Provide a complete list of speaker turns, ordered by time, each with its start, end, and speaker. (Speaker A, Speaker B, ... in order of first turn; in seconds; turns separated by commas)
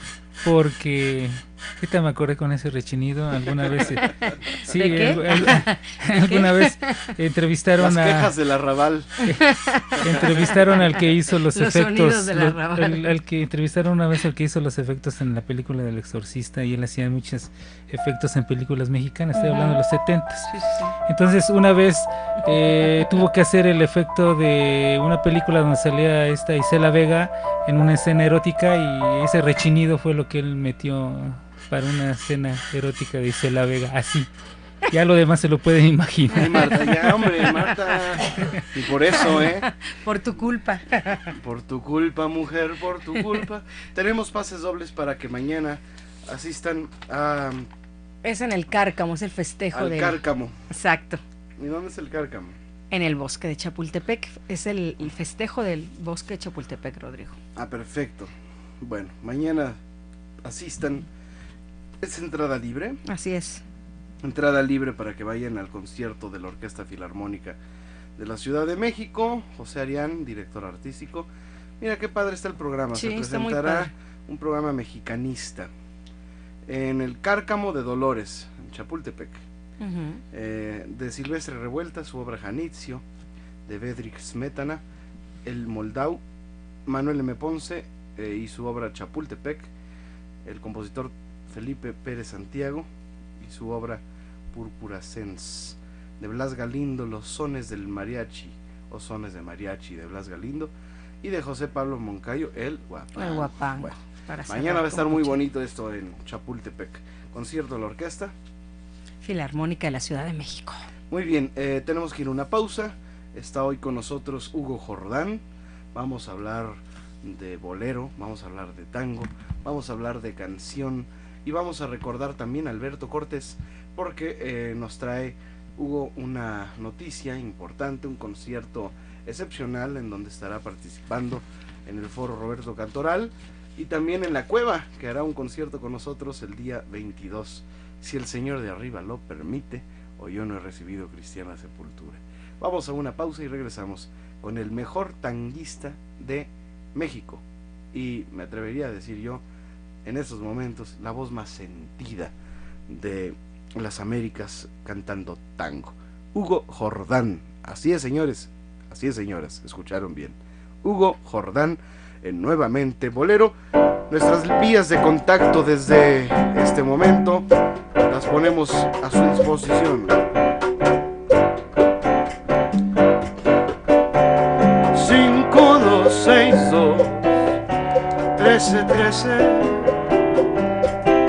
Speaker A: 0.4-8.3, Speaker B: 4.7-7.1, Speaker C: 7.8-9.1, Speaker A: 9.2-20.5, Speaker B: 9.4-10.6, Speaker C: 10.1-10.4, Speaker B: 11.5-13.1, Speaker B: 19.4-19.8, Speaker B: 20.5-20.9, Speaker A: 21.1-34.3, Speaker A: 34.9-36.8, Speaker C: 36.3-39.7, Speaker B: 39.2-41.3, Speaker C: 41.3-47.7, Speaker B: 48.2-51.2, Speaker C: 49.7-50.5, Speaker C: 51.6-52.6, Speaker B: 52.9-57.4, Speaker C: 57.6-59.8, Speaker C: 60.4-61.1, Speaker C: 62.0-63.0, Speaker B: 63.1-63.6, Speaker C: 64.2-67.6, Speaker C: 68.2-75.7, Speaker B: 72.9-73.9, Speaker C: 76.7-79.5, Speaker B: 79.8-80.2, Speaker C: 80.3-83.0, Speaker C: 83.7-84.8, Speaker C: 85.5-86.2, Speaker C: 86.9-89.7, Speaker C: 90.5-92.9, Speaker C: 93.4-104.0, Speaker B: 103.2-105.4, Speaker C: 104.5-108.3, Speaker B: 109.2-110.9, Speaker C: 111.1-149.4, Speaker C: 150.1-152.3, Speaker C: 152.9-163.6, Speaker C: 164.1-167.5, Speaker C: 168.0-170.2, Speaker C: 174.9-177.2, Speaker C: 178.3-179.9